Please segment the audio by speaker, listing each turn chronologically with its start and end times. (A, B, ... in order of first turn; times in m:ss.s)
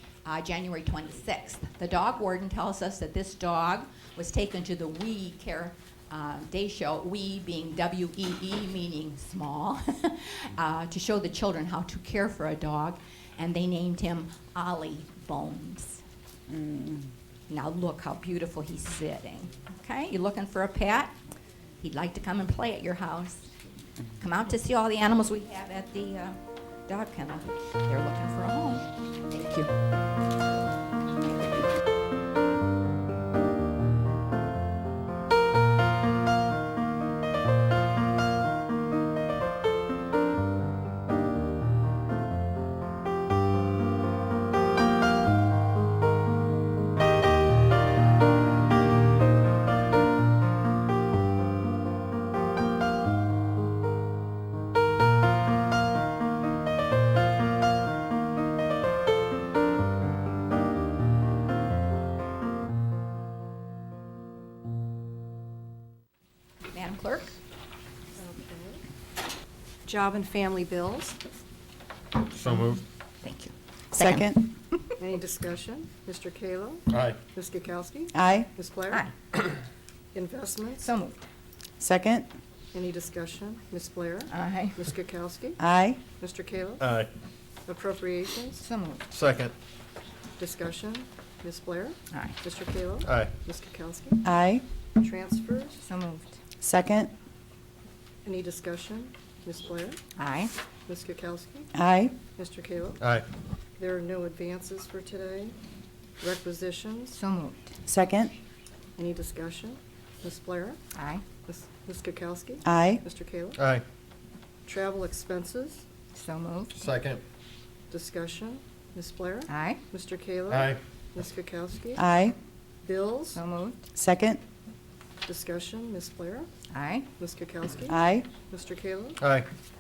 0:00.2-0:16.0 A
0:16.5-0:17.1 B
0:17.5-0:21.2 A
0:21.8-0:23.5 A
0:24.2-0:29.7 A
1:06.7-1:07.3 A
1:08.2-1:08.8 C
1:09.8-1:11.2 C
1:12.3-1:12.8 D
1:12.5-1:14.9 A
1:13.9-1:14.5 B
1:15.0-1:19.0 C
1:16.9-1:17.2 D
1:18.1-1:18.5 B
1:18.9-1:19.2 A
1:20.1-1:20.9 C
1:20.8-1:21.3 A
1:21.8-1:22.3 B
1:22.7-1:25.6 C
1:24.3-1:24.8 A
1:25.6-1:26.0 B
1:26.2-1:26.8 C
1:26.8-1:27.1 D
1:27.7-1:28.6 C
1:28.6-1:29.1 A
1:29.1-1:29.5 D
1:30.4-1:34.2 C
1:32.1-1:32.4 A
1:33.0-1:33.4 D
1:34.2-1:34.6 B
1:35.0-1:35.8 C
1:35.8-1:36.4 A
1:36.6-1:37.1 B
1:38.2-1:40.0 C
1:40.2-1:40.5 A
1:40.9-1:41.7 C
1:41.7-1:42.2 B
1:42.4-1:43.0 C
1:43.0-1:43.3 D
1:43.8-1:45.6 C
1:46.2-1:47.2 C
1:47.1-1:47.7 A
1:47.8-1:48.3 B
1:49.0-1:50.8 C
1:50.9-1:51.2 A
1:51.5-1:53.6 C
1:52.6-1:53.0 B
1:53.6-1:53.8 D
1:54.6-1:55.8 C
1:56.1-1:56.9 A
1:56.8-1:57.2 D
1:57.9-2:02.0 C
1:59.5-1:59.8 A
2:00.5-2:00.8 D
2:02.0-2:02.4 B
2:02.8-2:03.4 C
2:03.3-2:03.8 A
2:03.9-2:04.4 B
2:05.3-2:06.5 C
2:06.7-2:07.1 A
2:07.2-2:09.2 C
2:07.9-2:08.3 B
2:09.2-2:09.5 D